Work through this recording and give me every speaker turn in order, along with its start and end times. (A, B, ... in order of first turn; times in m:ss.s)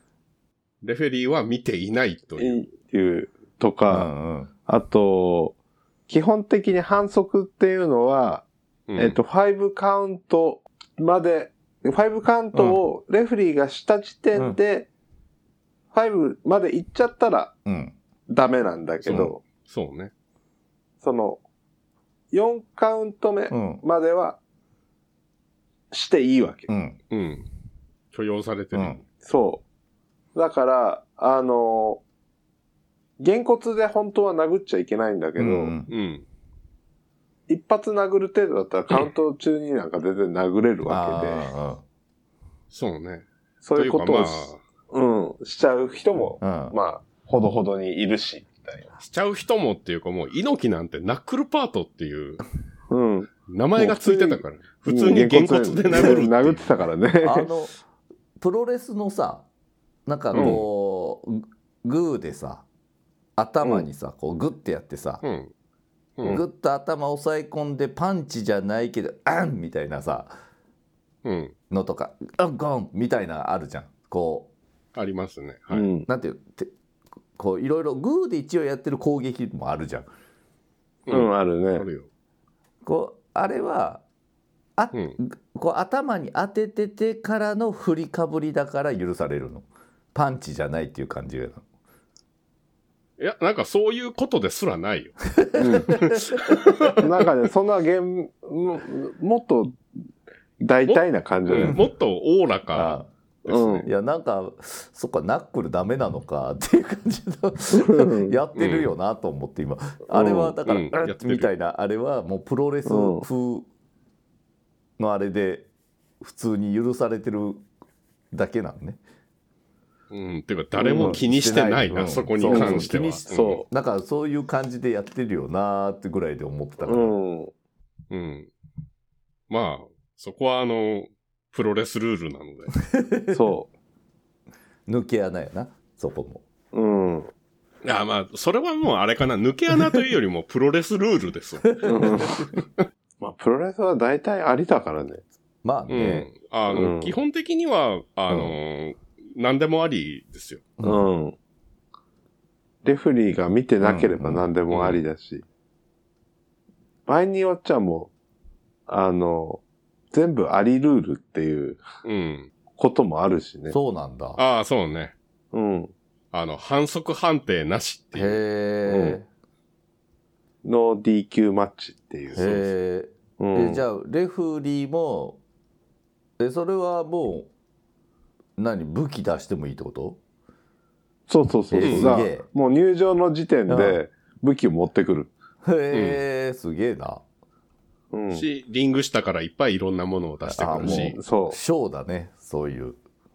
0:00.8-0:02.6 A
0:02.4-0:04.1 B
0:03.9-0:04.5 C
0:04.7-0:05.6 B
0:06.1-0:14.9 B
0:08.9-0:09.2 A
0:12.5-0:12.8 C
0:15.9-0:17.5 B
0:17.6-0:18.0 C
0:18.3-0:19.4 B
0:19.1-0:20.1 A
0:21.0-0:21.4 B
0:22.3-0:24.4 B
0:23.5-0:23.8 C
0:25.9-0:26.7 B
0:26.7-0:27.0 C
0:27.1-0:27.5 A
0:28.1-0:29.0 A
0:28.7-0:29.0 C
0:29.2-0:29.6 B
0:30.4-0:32.0 B
0:33.2-0:35.7 B
0:35.4-0:35.9 C
0:35.9-0:36.3 A
0:37.5-0:41.5 B
0:40.9-0:41.8 C
0:42.7-0:44.6 A
0:43.6-0:48.9 B
0:46.4-0:46.8 C
0:49.0-0:52.4 A
0:52.9-0:57.5 B
0:53.5-0:56.9 A
0:57.2-0:57.8 C
0:58.4-0:59.5 C
1:00.1-1:02.7 C
1:00.3-1:00.6 B
1:00.3-1:00.6 A
1:03.4-1:05.2 C
1:03.6-1:03.9 B
1:05.2-1:05.5 A
1:06.2-1:06.4 A
1:06.3-1:10.3 C
1:11.2-1:11.6 A
1:11.7-1:14.5 C
1:15.0-1:15.9 A
1:15.7-1:16.1 B
1:16.1-1:16.7 C
1:17.4-1:20.1 C
1:21.1-1:22.1 A
1:21.1-1:21.9 B
1:22.8-1:24.0 C
1:24.8-1:31.6 C
1:24.9-1:25.2 A
1:33.2-1:37.0 A
1:35.4-1:36.3 C
1:35.6-1:36.0 B
1:36.6-1:39.8 B
1:40.6-1:41.8 B
1:40.9-1:43.9 A
1:41.6-1:41.9 C
1:42.7-1:43.1 C
1:43.5-1:43.9 B
1:43.8-1:53.6 C
1:47.7-1:48.4 B
1:48.6-1:48.9 A
1:50.1-1:50.6 B
1:50.7-1:51.5 A
1:52.9-1:53.3 B
1:55.0-1:55.7 C
1:56.2-1:57.6 C
1:58.3-1:59.0 C
2:00.1-2:03.6 A
2:00.8-2:01.2 B
2:01.0-2:07.2 C
2:02.4-2:03.6 B
2:06.8-2:07.5 B
2:08.1-2:08.5 A
2:09.5-2:12.8 A
2:12.9-2:13.4 C
2:13.3-2:13.7 B
2:14.9-2:16.4 C
2:16.7-2:17.3 B
2:17.8-2:22.6 A
2:21.8-2:22.4 B
2:23.2-2:25.3 B
2:25.6-2:26.3 C
2:25.9-2:30.7 A
2:26.7-2:27.2 B
2:28.3-2:28.6 C
2:30.8-2:31.1 C
2:30.8-2:31.4 B
2:32.8-2:35.4 B
2:33.8-2:34.5 C
2:34.7-2:35.0 A
2:37.1-2:38.1 B
2:38.9-2:41.8 B
2:42.0-2:42.5 A
2:42.8-2:43.8 B
2:43.7-2:44.4 C
2:44.4-2:45.2 A
2:45.5-2:45.9 B
2:46.3-2:48.4 A
2:48.2-2:49.3 C
2:48.9-2:49.2 B
2:50.6-2:52.6 B
2:52.3-2:55.4 C
2:53.4-2:53.8 B
2:56.4-2:57.5 C
2:58.6-3:00.2 C
3:01.3-3:05.3 B
3:01.7-3:02.5 C
3:01.8-3:02.2 A
3:03.7-3:04.0 C
3:05.6-3:07.2 C
3:05.9-3:06.2 A
3:08.1-3:08.5 B
3:08.3-3:11.2 A
3:10.5-3:13.0 C
3:10.8-3:11.6 B